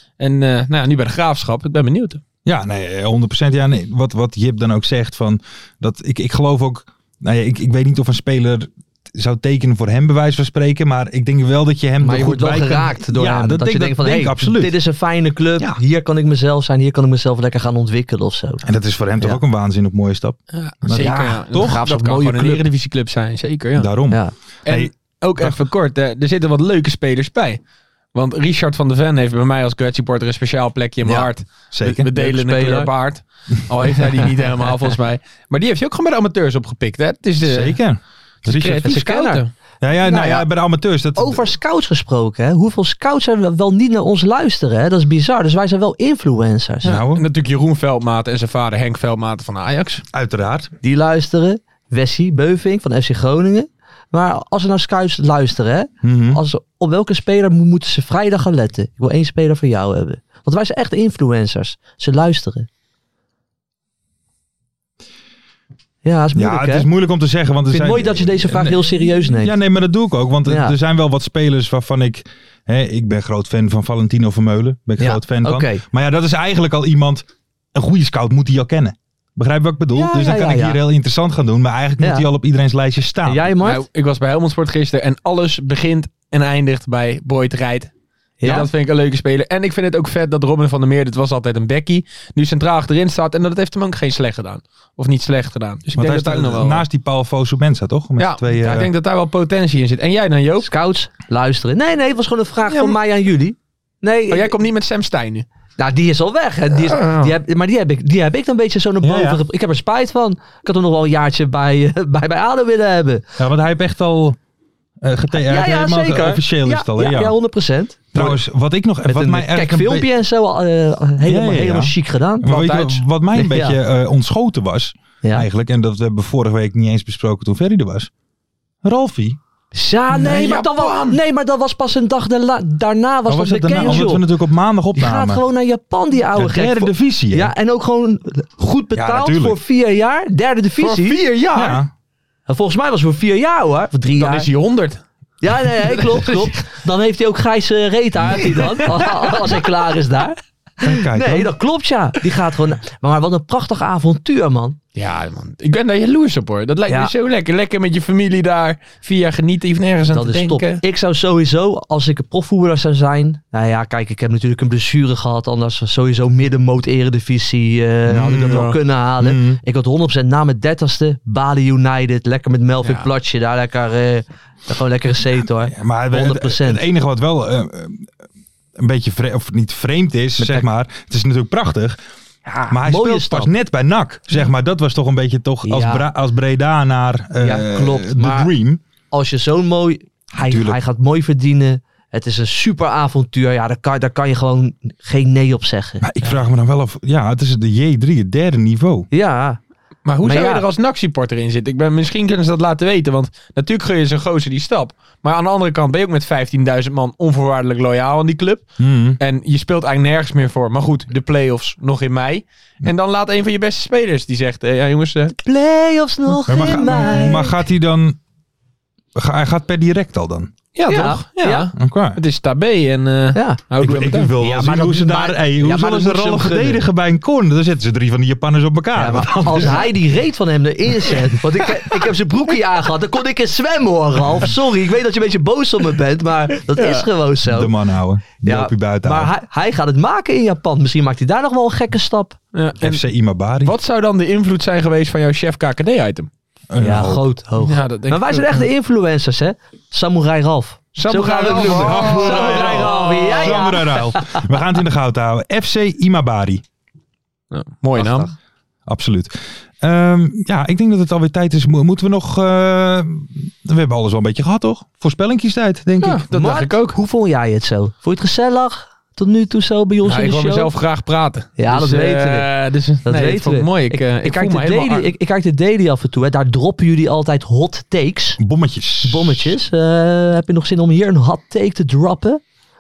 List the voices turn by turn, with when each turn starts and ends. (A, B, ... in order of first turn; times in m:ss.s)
0:00.2-0:02.2 A
0:02.4-0:14.8 B
0:12.0-0:18.6 C
0:18.6-0:21.8 B
0:20.5-0:23.9 A
0:21.0-0:22.6 C
0:23.7-0:25.6 B
0:24.6-0:27.6 A
0:28.1-0:37.8 A
0:31.7-0:32.1 B
0:32.1-0:32.9 C
0:37.4-0:39.0 B
0:38.4-0:39.5 A
0:38.8-0:39.4 C
0:39.8-0:41.5 B
0:40.0-0:40.4 C
0:41.2-0:46.9 C
0:46.8-0:47.2 B
0:46.8-0:50.0 A
0:50.1-0:50.7 B
0:50.8-1:02.7 C
0:56.0-0:56.4 B
1:06.0-1:06.9 C
1:06.3-1:23.5 B
1:07.7-1:09.5 C
1:10.5-1:10.7 C
1:15.0-1:15.8 C
1:19.9-1:20.8 C
1:22.0-1:22.2 C
1:23.2-1:23.8 C
1:23.6-1:27.9 A
1:28.4-1:28.7 C
1:28.4-1:36.8 A
1:36.0-1:38.9 B
1:38.2-1:40.7 A
1:40.6-1:44.5 C
1:42.7-1:43.0 A
1:44.3-1:45.5 A
1:45.8-1:53.2 C
1:46.8-1:47.3 A
1:49.0-1:49.4 B
1:53.4-1:54.4 B
1:55.0-1:57.4 B
1:55.3-1:58.4 C
1:58.1-2:00.1 B
1:59.0-2:02.5 C
2:01.2-2:08.1 B
2:02.5-2:03.0 A
2:03.3-2:03.8 C
2:08.8-2:09.4 B
2:09.7-2:14.2 C
2:10.1-2:11.2 A
2:13.3-2:15.4 B
2:15.0-2:21.2 C
2:16.3-2:17.5 B
2:18.9-2:19.6 B
2:20.8-2:21.8 A
2:21.5-2:21.9 B
2:22.5-2:24.5 C
2:24.2-2:25.0 A
2:25.4-2:34.8 C
2:25.9-2:26.5 A
2:28.5-2:29.2 A
2:30.8-2:31.5 B
2:35.0-2:40.8 A
2:40.1-2:56.8 C
2:48.1-2:49.6 B
2:48.3-2:48.8 A
2:52.8-2:53.1 A
2:55.6-2:58.1 B
2:58.8-3:02.0 B
3:00.4-3:00.6 C
3:02.4-3:03.5 C
3:02.7-3:08.8 B
3:05.6-3:06.1 C
3:07.4-3:08.5 C
3:09.1-3:16.0 C
3:10.4-3:10.8 B
3:16.0-3:19.1 B
3:19.1-3:19.6 C
3:20.0-3:28.6 A
3:20.2-3:20.6 C
3:28.8-3:29.2 B
3:29.2-3:35.4 A
3:35.4-3:37.5 C
3:36.5-3:38.2 B
3:39.1-3:40.5 B
3:40.8-3:44.4 A
3:40.9-3:41.7 C
3:41.8-3:42.2 B
3:43.3-3:43.6 C
3:43.8-3:49.9 B
3:44.4-3:46.8 C
3:49.0-3:57.7 C
3:56.8-3:57.1 A
3:57.4-3:59.3 B
3:58.4-4:02.4 C
4:02.5-4:03.0 A
4:02.8-4:03.8 B
4:03.6-4:06.3 A
4:06.7-4:07.2 B
4:06.8-4:14.4 C
4:07.6-4:08.7 A
4:10.9-4:13.7 A
4:11.5-4:16.6 B
4:17.5-4:18.3 A
4:18.0-4:18.3 C
4:18.9-4:26.2 B
4:26.0-4:27.0 A
4:26.3-4:30.7 C
4:30.0-4:35.1 A
4:31.6-4:32.5 C
4:33.0-4:38.4 C
4:38.4-4:39.6 B
4:39.0-4:42.4 C